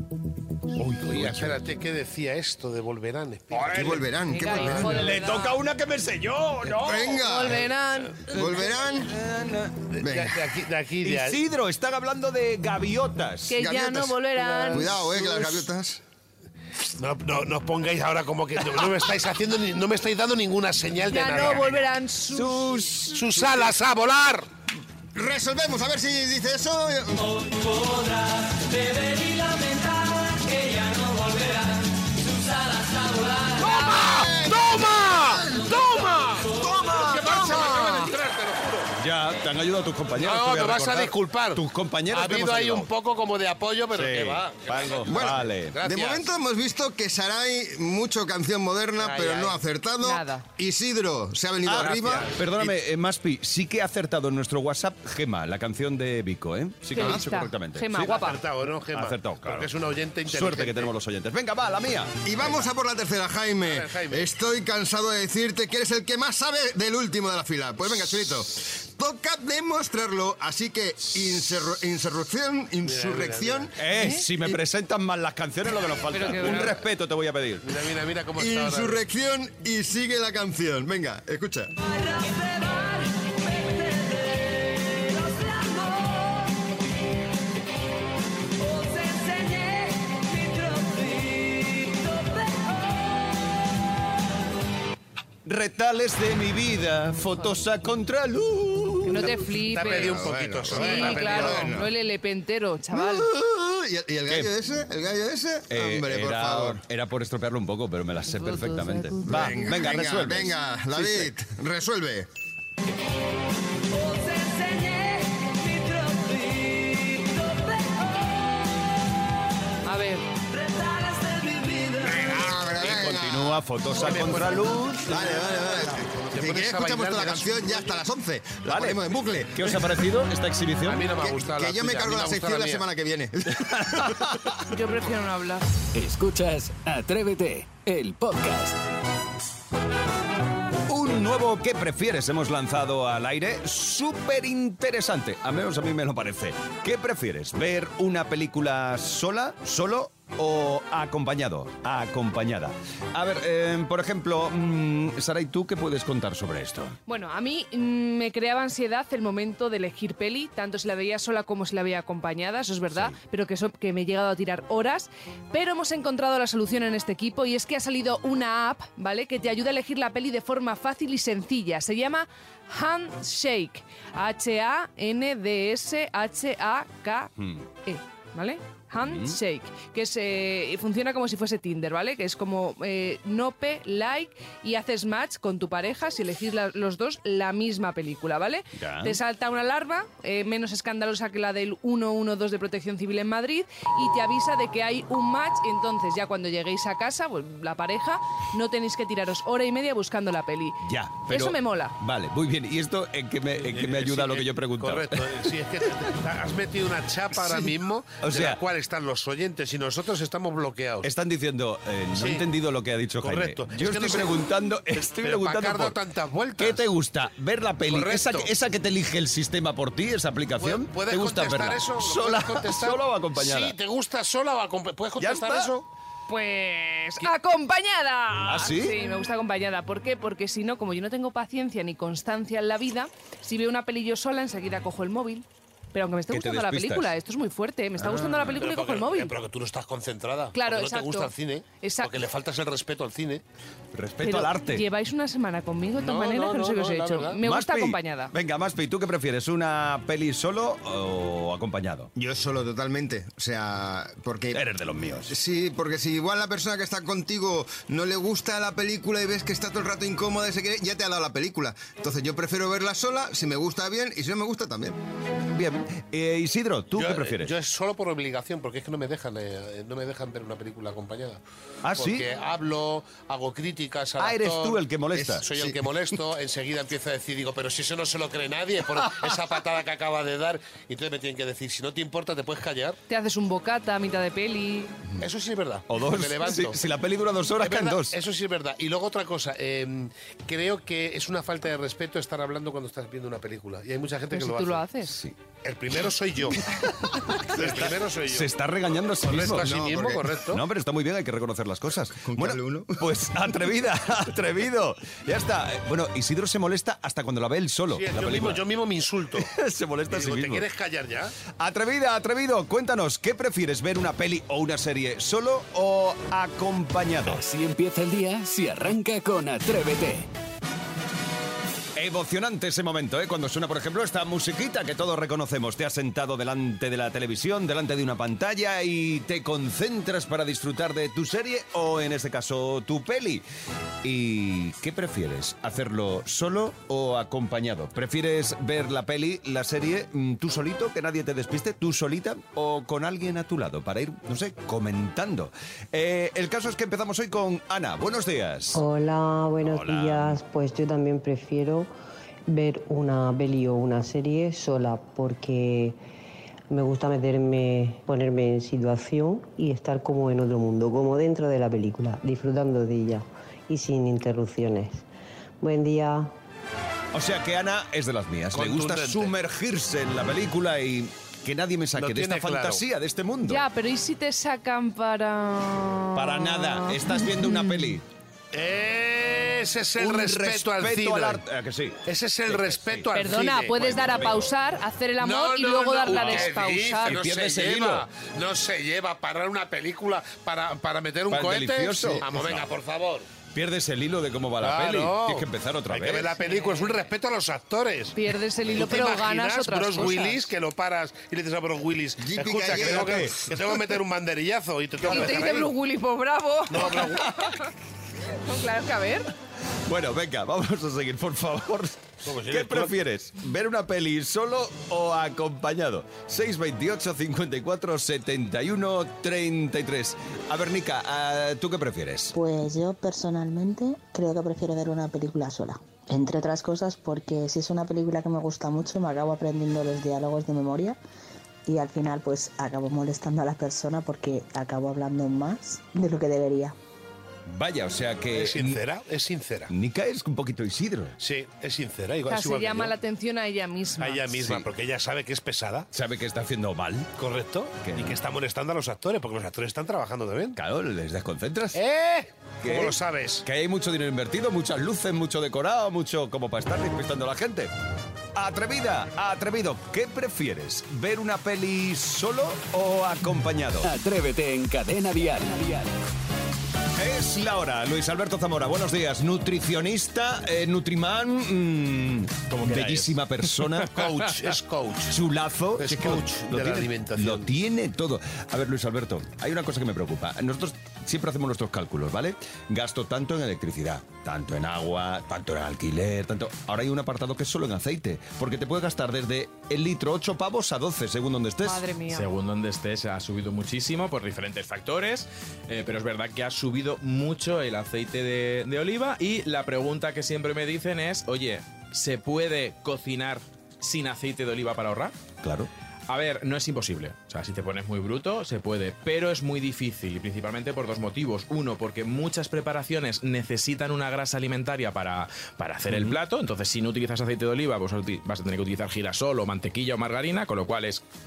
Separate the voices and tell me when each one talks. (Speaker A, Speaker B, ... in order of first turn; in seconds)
Speaker A: 0.8-1.6, 3.5-7.2, 8.3-9.7, 11.0-13.6, 22.3-23.6, 39.0-42.9, 43.9-45.8, 51.7-58.3, 58.9-59.7, 60.3-62.2, 73.8-77.7, 95.5-99.5, 105.7-111.3, 122.8-125.1, 128.7-131.1, 133.7-134.5, 140.9-157.0, 177.4-177.7, 179.0-179.4, 188.8-189.2, 200.8-205.5, 207.3-208.6, 211.0-216.0, 216.6-223.7, 225.2-225.7, 228.5-229.0, 236.3-237.1, 238.0-238.7, 243.9-244.8, 247.4-252.1, 254.5-255.3, 265.5-267.5, 271.8-272.2, 274.2-275.5, 279.0-279.3, 285.9-288.2, 297.0-299.9, 300.5-308.6, 309.4-310.7, 311.6-317.4, 322.0-333.4, 334.0-348.8, 349.6-350.4, 367.1-373.6, 376.1-378.0, 380.0-383.1, 383.8-384.4, 386.1-386.5, 387.1-388.1, 391.3-392.7, 393.5-396.4, 402.7-403.4, 409.9-422.3, 437.5-438.8, 439.7-441.1, 445.9-447.1, 447.8-448.2, 450.6-451.8, 452.6-457.7, 458.4-463.9, 467.0-474.1, 475.1-491.9, 505.4-505.7
Speaker B: 1.0-4.2, 4.7-5.0, 6.6-7.1, 9.9-11.4, 17.0-21.8, 23.1-24.5, 33.5-38.9, 40.2-46.3, 49.0-49.6, 51.7-52.7, 58.0-60.9, 63.6-64.3, 72.8-73.7, 76.4-76.8, 77.6-79.0, 99.7-101.8, 123.9-125.4, 125.9-128.0, 130.8-132.8, 203.6-211.1, 212.2-212.4, 213.2-216.8, 217.9-218.5, 220.6-225.9, 238.6-243.4, 246.0-247.4, 266.9-271.4, 272.0-274.8, 275.4-283.0, 285.2-286.8, 287.6-294.8, 295.6-298.5, 299.2-300.6, 308.0-309.5, 310.1-311.4, 368.5-369.3, 372.0-372.8, 378.5-381.4, 382.1-384.5, 385.2-393.3, 394.6-398.2, 398.7-405.7, 406.7-407.4, 412.2-413.0, 438.3-439.7, 441.2-443.0, 444.0-445.9, 447.2-450.6, 451.7-453.4, 473.9-475.2, 475.8-477.5
Speaker C: 3.7-5.1, 6.8-7.7, 8.3-9.1, 10.0-10.4, 13.6-16.0, 25.1-27.5, 33.6-38.1, 45.1-52.4, 57.0-57.4, 62.2-74.6, 78.4-81.7, 99.8-101.9, 102.9-106.8, 109.3-112.3, 122.0-123.6, 125.0-130.0, 131.2-134.3, 252.2-254.6, 255.3-265.0, 275.1-275.8, 299.3-300.3, 302.2-303.1, 402.2-403.3
Speaker D: 4.3-5.6, 7.1-8.2, 13.5-14.9, 21.1-22.8, 50.0-50.4, 56.9-58.4, 73.9-74.2, 76.1-76.7, 89.0-89.6, 99.0-103.3, 108.4-109.2, 119.9-120.2, 134.7-135.7, 157.1-177.3, 177.8-201.9, 226.3-239.3, 240.5-242.1, 244.2-248.3, 283.1-285.0, 294.3-295.2, 373.5-377.9, 383.1-387.1, 398.1-400.5, 405.0-407.7, 408.4-409.3, 442.3-444.4, 491.6-492.3
Speaker E: 29.1-29.8, 135.9-138.8, 317.2-320.3, 463.8-465.9
Speaker F: 348.7-351.9, 352.5-356.0, 356.7-365.1, 365.6-366.3
Speaker G: 422.3-431.0, 431.6-436.8
Speaker H: 472.5-473.2, 492.1-505.1, 506.1-521.0